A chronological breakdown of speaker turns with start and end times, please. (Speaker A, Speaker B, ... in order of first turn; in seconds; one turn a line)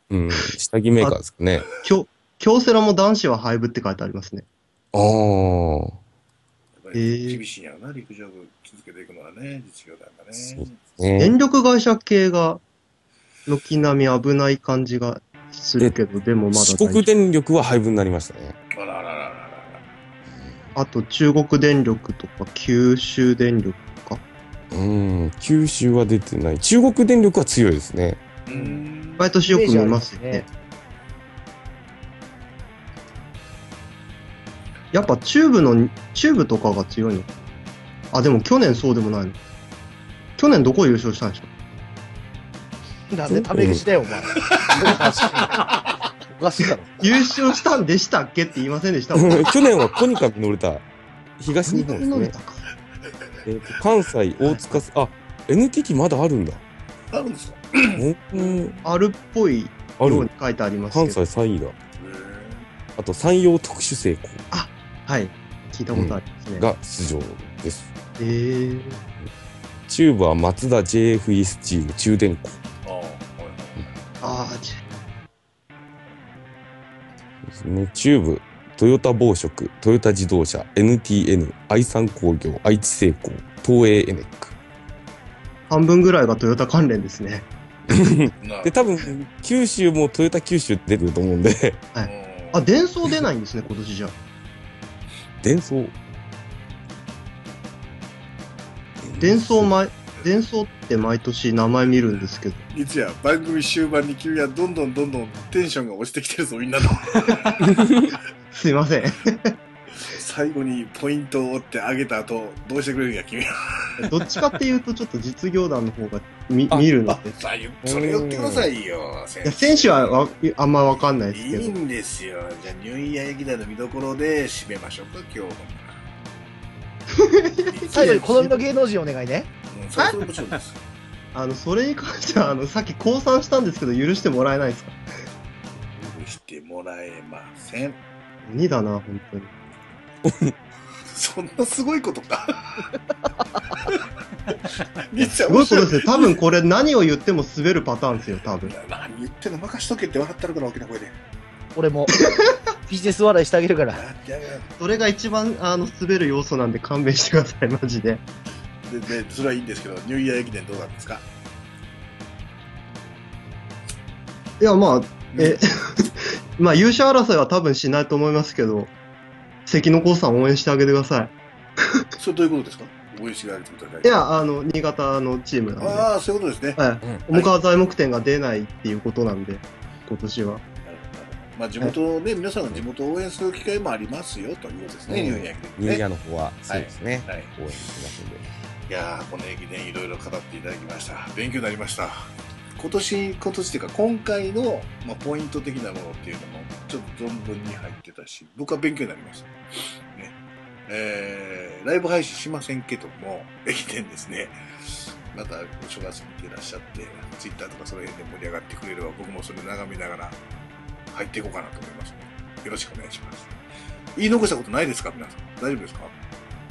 Speaker A: 0.1-1.7
Speaker B: 1.7-4.4
Speaker A: 4.9-6.0
Speaker C: 6.8-10.8
Speaker B: 6.9-7.4
Speaker A: 10.5-11.3
Speaker B: 11.2-12.6
Speaker B: 13.5-17.1
Speaker A: 16.5-18.6
Speaker C: 18.7-19.8
Speaker B: 20.7-24.2
Speaker A: 24.7-28.2
Speaker C: 28.4-29.3
Speaker B: 29.2-30.4
Speaker D: 29.5-30.4
Speaker B: 34.9-37.3
Speaker B: 38.1-39.4
Speaker B: 40.4-41.5
Speaker D: 43.1-46.9
Speaker A: 43.3-43.8
Speaker C: 44.4-45.5
Speaker B: 47.0-49.5
Speaker A: 49.1-50.8
Speaker A: 51.4-52.3
Speaker B: 51.6-52.6
Speaker A: 53.4-56.6
Speaker C: 57.1-58.8
Speaker A: 57.9-58.7
Speaker B: 58.8-61.2
Speaker A: 60.0-60.3
Speaker A: 60.9-61.7
Speaker C: 62.0-62.7
Speaker A: 63.0-64.4
Speaker B: 64.5-66.7
Speaker A: 65.9-67.9
Speaker B: 68.2-69.0
Speaker A: 69.9-72.6
Speaker C: 72.8-73.9
Speaker B: 74.2-74.8
Speaker A: 77.5-84.5
Speaker B: 85.7-87.5
Speaker A: 87.9-91.8
Speaker C: 88.4-89.1
Speaker B: 91.9-94.1
Speaker C: 92.0-92.6
Speaker A: 95.4-95.9
Speaker A: 99.0-99.7
Speaker B: 99.2-102.6
Speaker C: 102.7-108.0
Speaker A: 107.6-108.1
Speaker B: 108.5-109.5
Speaker C: 109.9-114.3
Speaker B: 114.0-117.3
Speaker C: 117.1-120.3
Speaker A: 117.9-118.7
Speaker B: 119.4-121.8
Speaker C: 121.3-126.0
Speaker B: 127.1-128.6
Speaker C: 127.7-128.3
Speaker D: 127.9-129.5
Speaker C: 129.7-130.8
Speaker B: 130.0-130.2
Speaker B: 131.3-134.9
Speaker C: 136.0-138.0
Speaker B: 138.4-139.5
Speaker A: 140.2-140.5
Speaker C: 141.1-142.9
Speaker C: 143.8-146.3
Speaker B: 145.2-148.7
Speaker C: 148.6-151.1
Speaker D: 151.7-152.2
Speaker B: 152.2-152.6
Speaker D: 152.9-154.0
Speaker C: 153.9-154.7
Speaker B: 154.8-158.2
Speaker C: 158.8-161.2
Speaker B: 164.6-168.9
Speaker C: 165.3-165.6
Speaker B: 169.7-172.1
Speaker C: 172.2-174.2
Speaker B: 174.0-176.1
Speaker C: 175.8-176.8
Speaker B: 176.8-180.6
Speaker A: 177.0-177.3
Speaker C: 180.8-186.0
Speaker A: 185.1-188.4
Speaker C: 186.7-187.5
Speaker C: 188.9-199.5
Speaker C: 200.9-204.5
Speaker C: 205.3-210.4
Speaker C: 211.1-213.5
Speaker C: 214.2-216.1